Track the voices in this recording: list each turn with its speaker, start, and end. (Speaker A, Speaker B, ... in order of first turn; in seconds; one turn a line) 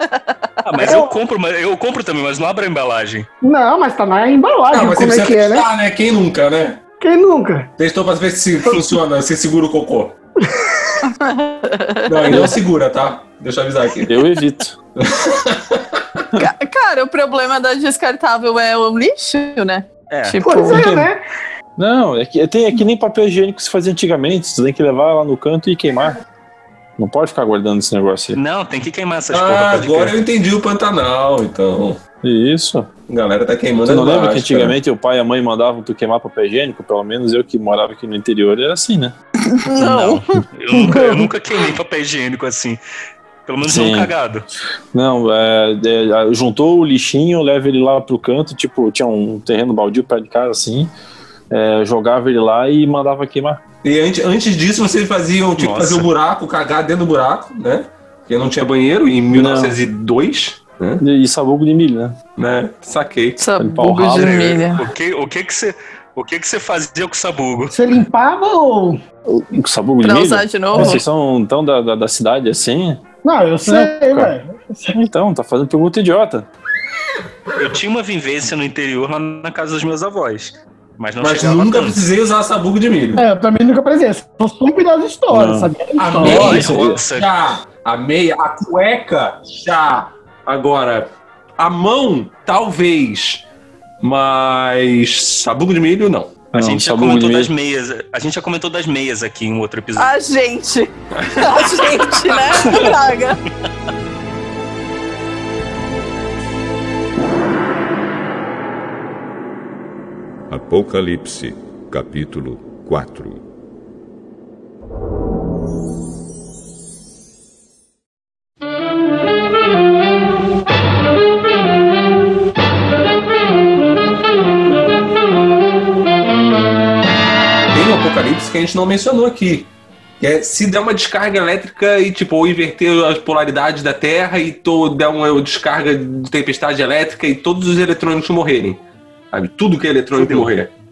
Speaker A: 0.1-0.4
Speaker B: 0.6-3.3
Speaker C: 0.8-1.1
Speaker C: 3.4-5.7
Speaker D: 4.7-6.8
Speaker C: 7.0-7.7
Speaker D: 7.8-10.2
Speaker C: 10.5-10.9
Speaker A: 11.1-12.5
Speaker D: 12.1-14.2
Speaker E: 14.1-14.8
Speaker D: 15.0-16.2
Speaker A: 16.4-21.0
Speaker B: 20.1-20.4
Speaker C: 20.4-21.2
Speaker E: 21.8-26.2
Speaker E: 27.0-28.4
Speaker B: 28.3-30.2
Speaker D: 29.3-32.0
Speaker E: 32.2-32.9
Speaker D: 33.1-34.8
Speaker E: 33.8-39.1
Speaker A: 39.5-40.4
Speaker B: 39.8-42.8
Speaker C: 40.8-41.3
Speaker B: 43.5-44.5
Speaker E: 43.6-44.1
Speaker E: 44.9-50.9
Speaker E: 51.5-53.6
Speaker D: 53.8-61.0
Speaker B: 55.6-56.1
Speaker E: 59.3-59.8
Speaker E: 61.0-62.2
Speaker D: 62.4-63.4
Speaker A: 63.4-64.8
Speaker E: 63.6-64.4
Speaker B: 64.1-67.8
Speaker C: 67.7-69.0
Speaker E: 69.3-73.0
Speaker A: 70.0-71.0
Speaker C: 73.2-75.0
Speaker E: 73.6-74.3
Speaker E: 74.9-76.5
Speaker B: 77.6-82.0
Speaker D: 81.2-83.2
Speaker C: 83.2-86.6
Speaker E: 85.3-85.7
Speaker D: 86.0-93.4
Speaker B: 86.2-87.3
Speaker E: 86.3-87.0
Speaker D: 94.0-96.3
Speaker E: 96.5-97.5
Speaker B: 96.6-100.1
Speaker A: 100.0-103.4
Speaker D: 101.2-102.8
Speaker F: 110.5-113.4
Speaker D: 127.7-138.8
Speaker D: 139.3-140.7
Speaker B: 140.2-140.5